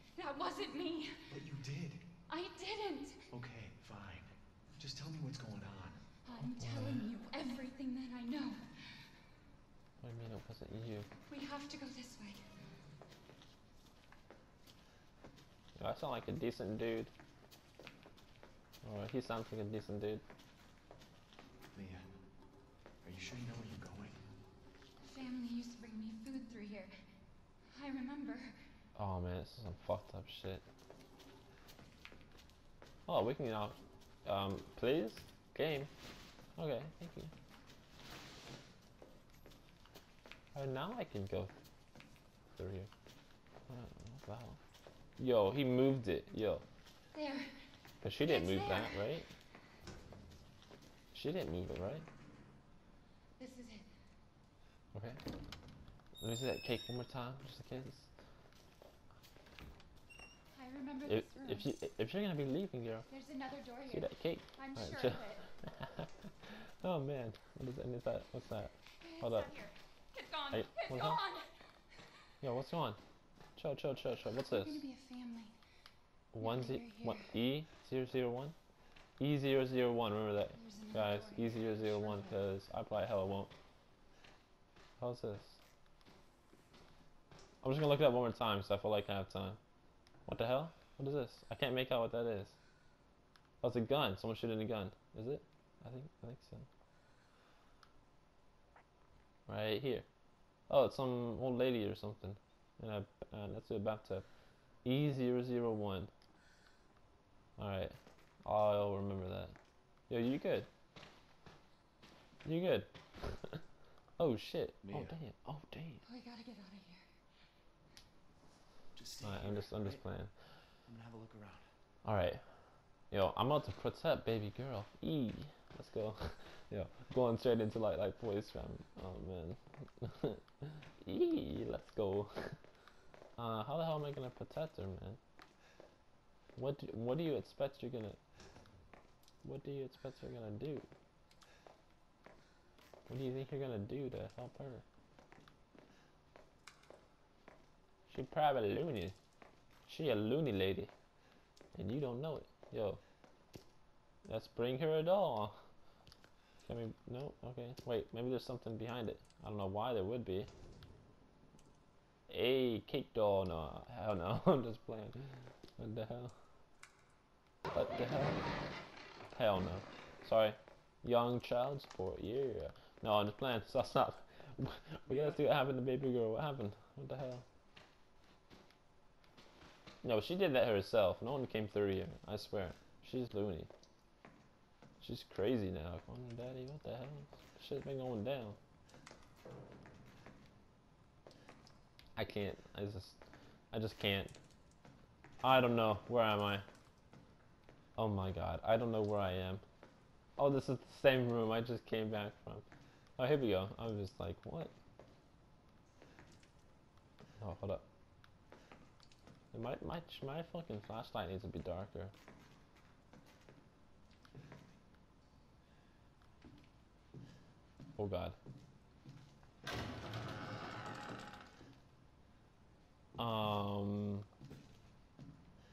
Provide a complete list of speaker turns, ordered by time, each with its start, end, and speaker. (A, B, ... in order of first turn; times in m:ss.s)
0:00.2-0:01.4 A
0:01.3-0:02.0 B
0:02.3-0:03.3 A
0:03.3-0:06.0 B
0:06.2-0:09.0 A
0:06.6-0:07.0 C
0:10.0-0:11.1 C
0:11.3-0:12.4 A
0:15.8-0:17.1 C
0:18.8-0:20.2 C
0:21.7-0:22.1 B
0:23.0-0:24.2 B
0:25.0-0:26.9 A
0:27.7-0:28.5 A
0:29.0-0:30.6 C
0:33.1-0:35.9 C
0:36.6-0:37.3 C
0:40.5-0:41.5 C
0:42.6-0:42.9 C
0:43.7-0:44.6 C
0:45.2-0:46.6 C
0:47.1-0:47.6 A
0:48.0-0:49.3 C
0:48.2-0:49.1 A
0:51.1-0:52.0 C
0:53.4-0:53.9 A
0:54.9-0:55.2 C
0:56.2-0:58.1 C
1:00.5-1:01.7 A
1:01.0-1:03.0 C
1:03.1-1:05.4 A
1:03.9-1:09.5 C
1:09.0-1:11.5 A
1:10.5-1:11.2 C
1:12.4-1:13.0 C
1:13.6-1:14.8 C
1:14.4-1:15.5 A
1:16.3-1:18.5 C
1:16.4-1:17.3 A
1:19.2-1:23.5 C
1:20.5-1:22.4 A
1:25.0-1:25.6 C
1:27.6-1:29.6 C
1:30.2-1:32.6 C
1:33.6-1:36.7 C
1:39.5-1:40.0 C
1:40.7-1:44.2 C
1:44.8-1:46.1 C
1:47.6-1:49.5 C
1:50.1-1:50.7 C
1:52.4-1:52.9 C
1:54.2-1:56.0 C
1:54.8-1:55.2 B
1:56.0-1:57.0 A
1:58.9-2:00.0 B
1:59.2-2:00.3 C
2:00.9-2:01.7 B
2:02.0-2:02.4 C
2:03.1-2:12.6 C
2:13.4-2:15.2 C
2:16.6-2:18.2 C
2:19.4-2:20.9 C
2:23.1-2:24.8 C
2:28.1-2:29.1 C
2:29.9-2:30.9 C
2:31.7-2:33.0 C
2:34.2-2:35.6 C
2:36.6-2:40.5 C
2:42.3-2:45.2 C
2:45.8-2:46.3 C
2:47.7-2:48.4 C
2:49.3-2:57.4 C
3:00.0-3:03.7 C
3:05.0-3:08.6 C
3:12.2-3:13.2 C
3:13.7-3:14.3 C
3:15.4-3:16.6 C
3:18.0-3:19.6 C
3:20.4-3:22.6 C
3:23.2-3:24.7 C
3:27.4-3:27.8 C
3:29.5-3:32.1 C
3:38.0-3:38.4 C
3:43.2-3:44.2 C